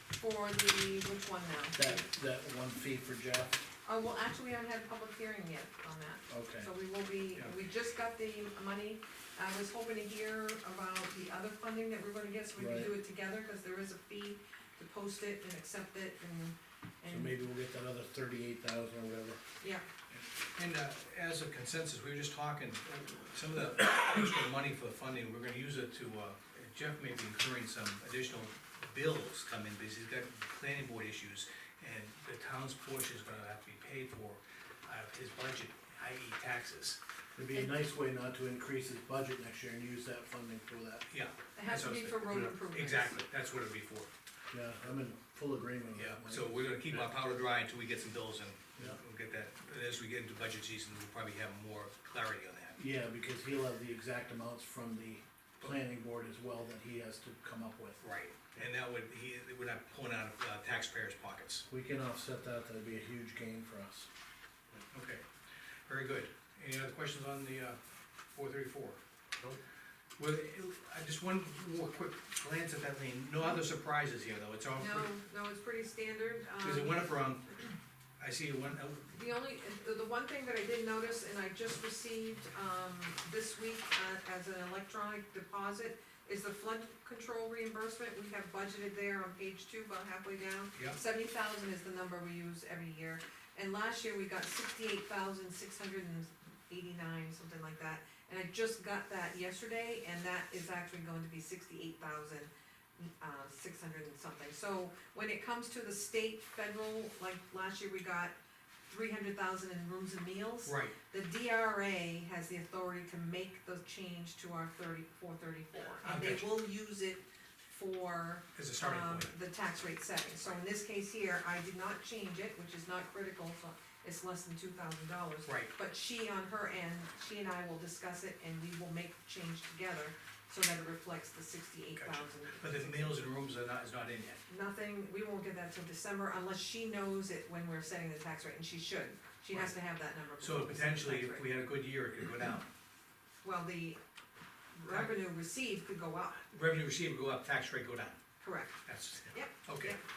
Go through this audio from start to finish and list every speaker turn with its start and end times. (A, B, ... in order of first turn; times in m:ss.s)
0:00.2-0:02.0 A
0:01.8-0:03.6 B
0:03.8-0:17.3 A
0:06.3-0:06.7 B
0:12.6-0:12.9 B
0:17.1-0:19.4 B
0:20.6-0:37.0 C
0:37.4-0:41.0 B
0:41.1-0:44.1 C
0:41.6-0:43.2 A
0:44.5-0:46.5 B
0:46.0-0:52.8 C
0:52.8-0:58.0 B
0:58.0-1:01.7 C
1:01.7-1:04.1 B
1:04.9-1:05.2 C
1:05.9-1:07.8 C
1:08.3-1:09.0 C
1:10.2-1:15.1 C
1:14.8-1:17.1 A
1:16.6-1:17.6 C
1:18.2-1:19.1 C
1:19.1-1:48.4 A
1:48.9-2:13.2 A
1:50.6-1:51.0 C
1:56.0-1:56.5 C
1:58.6-1:59.3 C
2:05.5-2:05.7 C
2:12.0-2:14.4 C
2:14.5-2:21.5 A
2:20.4-2:22.7 C
2:23.4-2:24.0 A
2:24.7-2:26.4 A
2:26.5-2:28.2 C
2:28.4-2:28.8 A
2:28.8-2:30.0 C
2:29.3-2:30.0 A